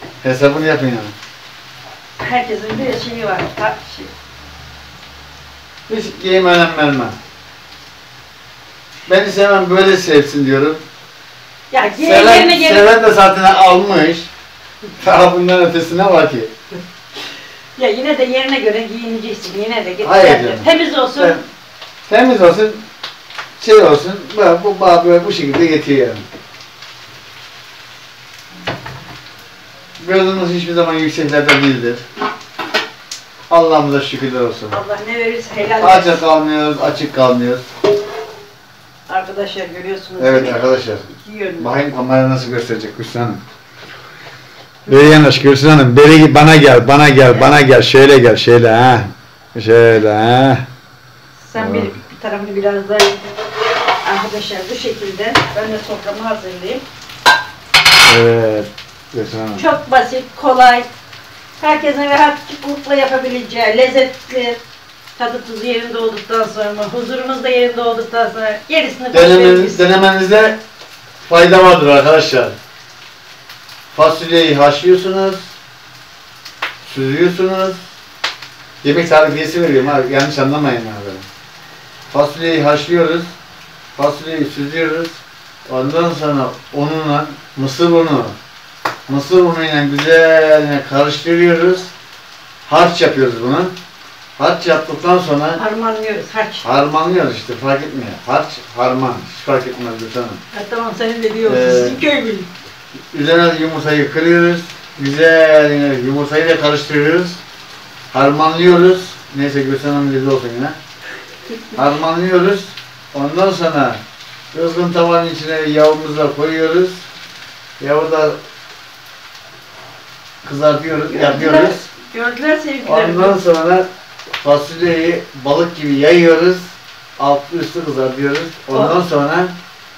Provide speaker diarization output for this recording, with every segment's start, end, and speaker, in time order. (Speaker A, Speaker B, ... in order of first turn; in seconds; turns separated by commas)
Speaker A: 0.2-1.1, Speaker B: 2.2-4.1, Speaker A: 5.9-7.1, Speaker A: 9.1-10.8, Speaker B: 11.7-12.9, Speaker A: 12.0-14.3, Speaker A: 15.0-16.5, Speaker B: 17.8-21.4, Speaker A: 20.0-21.4, Speaker A: 22.1-22.8, Speaker A: 23.6-26.2, Speaker A: 30.0-32.0, Speaker A: 33.5-34.8, Speaker B: 34.7-36.2, Speaker A: 35.8-37.7, Speaker B: 39.1-41.8, Speaker A: 40.2-41.0, Speaker A: 41.6-43.4, Speaker A: 44.9-50.6, Speaker B: 51.4-53.2, Speaker A: 51.5-51.9, Speaker B: 54.0-56.8, Speaker A: 58.0-59.6, Speaker B: 59.5-60.9, Speaker B: 61.6-64.6, Speaker B: 65.2-69.8, Speaker A: 69.1-70.6, Speaker A: 71.2-72.5, Speaker A: 73.9-75.4, Speaker A: 76.8-77.8, Speaker A: 78.8-81.2, Speaker A: 82.1-83.3, Speaker A: 84.0-88.3, Speaker A: 89.1-91.9, Speaker A: 92.7-93.7, Speaker A: 94.4-95.6, Speaker B: 95.6-96.8, Speaker A: 96.6-100.4, Speaker B: 100.5-102.5, Speaker A: 101.5-102.0, Speaker A: 103.1-107.4, Speaker A: 108.1-110.8, Speaker A: 111.7-114.0, Speaker A: 114.5-117.0, Speaker A: 117.8-118.4, Speaker A: 120.4-121.8, Speaker B: 121.1-123.3, Speaker A: 122.8-129.5